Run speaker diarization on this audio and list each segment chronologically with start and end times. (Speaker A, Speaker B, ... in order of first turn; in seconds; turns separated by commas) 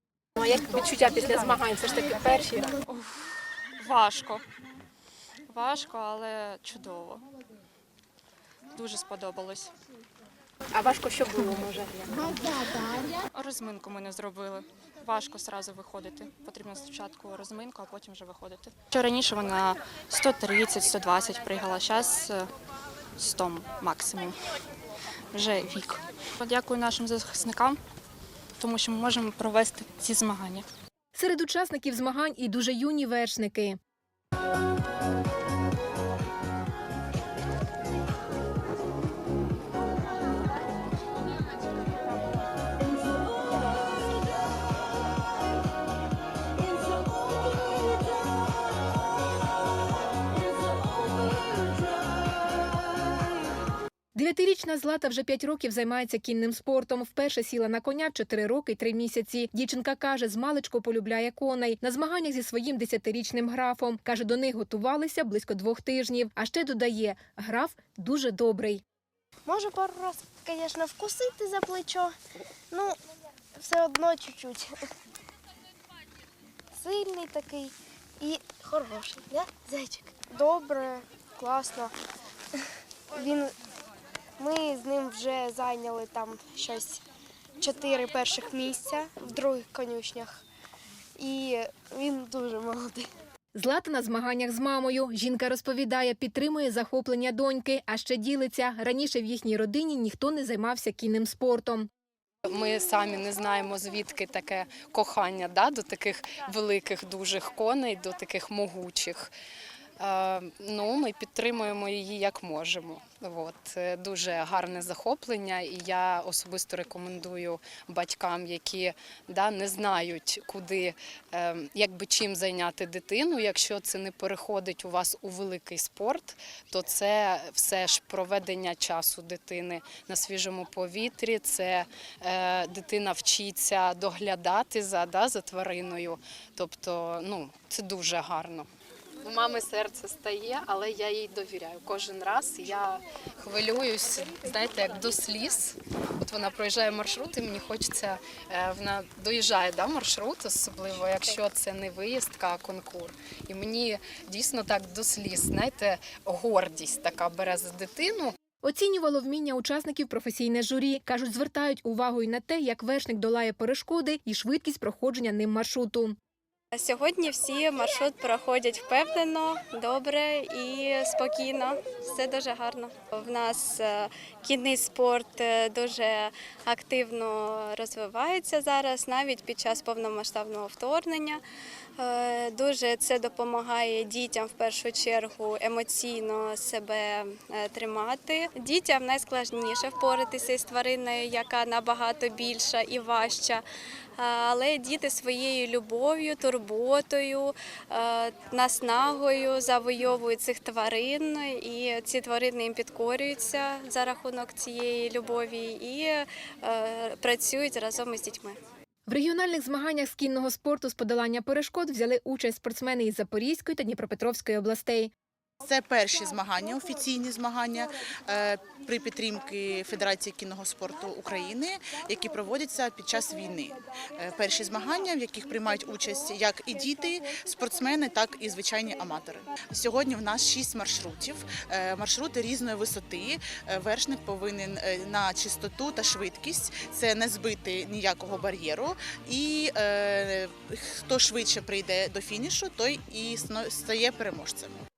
Speaker A: 0.4-2.7, Speaker B: 2.8-3.1, Speaker B: 3.8-4.4, Speaker B: 5.5-7.2, Speaker B: 8.7-9.7, Speaker A: 10.7-12.8, Speaker B: 13.3-22.5, Speaker B: 23.2-24.4, Speaker B: 25.3-27.8, Speaker B: 28.6-30.6, Speaker A: 31.1-33.8, Speaker A: 54.1-68.8, Speaker C: 69.5-72.1, Speaker C: 73.6-74.6, Speaker C: 76.7-81.9, Speaker C: 83.1-83.5, Speaker C: 84.4-87.0, Speaker C: 87.6-90.4, Speaker C: 91.2-93.1, Speaker A: 93.5-101.9, Speaker D: 102.4-109.3, Speaker D: 110.0-138.7, Speaker D: 139.2-158.3, Speaker A: 158.6-166.2, Speaker E: 166.7-181.4, Speaker E: 182.0-193.6, Speaker E: 194.2-208.6, Speaker A: 209.1-215.1, Speaker F: 215.6-244.8